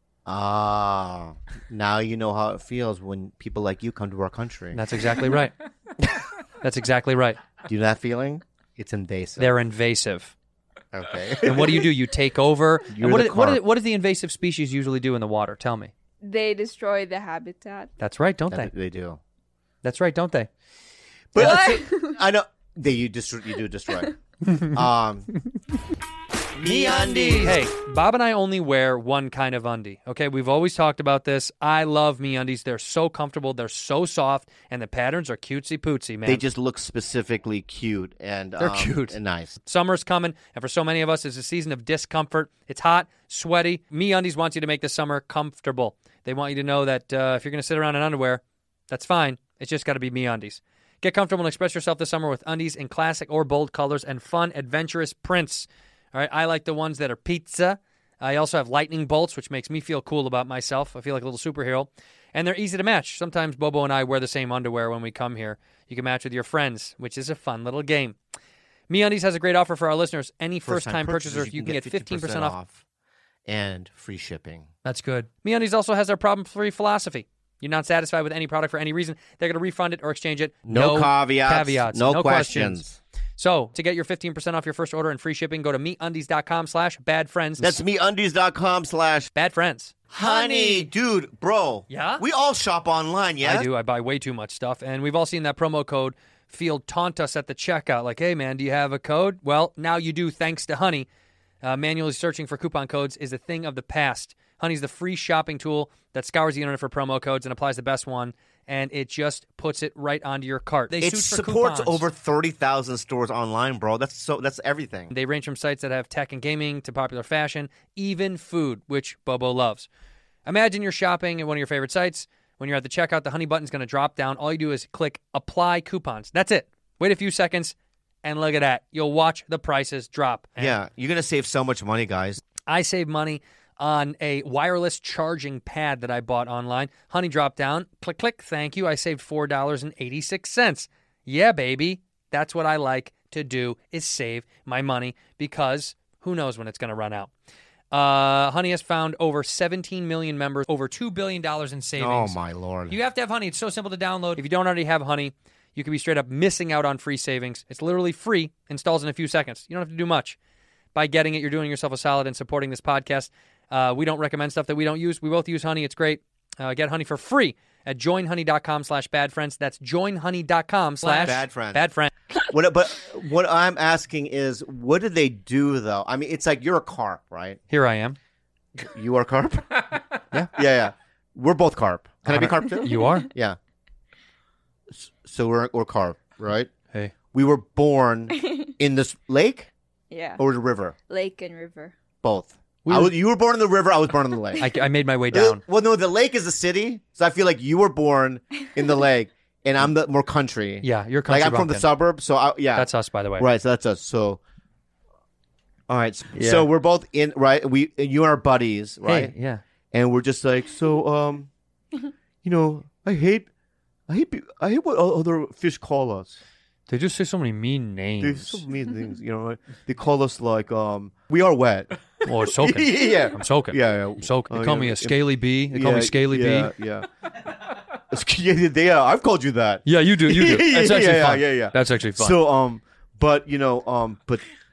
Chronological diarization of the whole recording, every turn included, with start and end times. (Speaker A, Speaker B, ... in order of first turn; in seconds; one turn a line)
Speaker A: 0.2-4.8
Speaker B: 4.7-5.5
Speaker B: 6.6-7.4
Speaker A: 7.6-9.5
Speaker B: 9.4-10.3
Speaker A: 10.9-11.9
Speaker B: 11.4-15.9
Speaker A: 12.9-13.6
Speaker C: 16.2-17.9
Speaker B: 18.0-18.7
Speaker A: 18.5-19.2
Speaker B: 19.8-20.5
Speaker A: 21.3-24.1
Speaker B: 21.4-21.7
Speaker C: 21.4-22.2
Speaker B: 24.5-24.7
Speaker A: 24.6-25.3
Speaker A: 26.6-27.6
Speaker B: 26.6-36.4
Speaker A: 36.2-39.6
Speaker B: 38.6-68.2
Speaker B: 68.9-72.5
Speaker A: 70.6-72.8
Speaker A: 73.5-74.7
Speaker B: 74.8-82.8
Speaker A: 80.7-83.0
Speaker B: 83.4-87.8
Speaker A: 87.6-89.3
Speaker B: 89.3-90.9
Speaker A: 90.1-93.7
Speaker B: 91.9-92.2
Speaker B: 93.4-101.1
Speaker B: 101.6-112.0
Speaker A: 111.0-115.1
Speaker B: 115.1-119.9
Speaker B: 120.5-130.8
Speaker A: 130.6-132.4
Speaker B: 132.7-147.3
Speaker B: 147.9-152.4
Speaker A: 152.0-153.0
Speaker B: 152.9-160.4
Speaker B: 160.9-172.1
Speaker A: 171.0-171.8
Speaker A: 172.4-177.6
Speaker B: 177.7-178.2
Speaker A: 178.8-180.0
Speaker A: 180.5-183.6
Speaker B: 182.2-183.3
Speaker A: 184.9-186.7
Speaker A: 187.3-189.7
Speaker C: 190.1-190.4
Speaker A: 190.4-190.9
Speaker C: 191.1-191.9
Speaker A: 192.2-194.7
Speaker B: 192.8-193.1
Speaker B: 194.6-195.6
Speaker A: 195.3-204.4
Speaker B: 200.8-201.9
Speaker B: 202.7-203.5
Speaker A: 205.9-209.3
Speaker B: 206.3-206.7
Speaker B: 209.0-209.6
Speaker A: 209.9-211.5
Speaker A: 212.4-213.5
Speaker A: 214.1-216.4
Speaker B: 216.9-218.6
Speaker A: 218.2-227.1
Speaker B: 222.2-226.7
Speaker A: 228.1-234.4
Speaker B: 229.8-232.4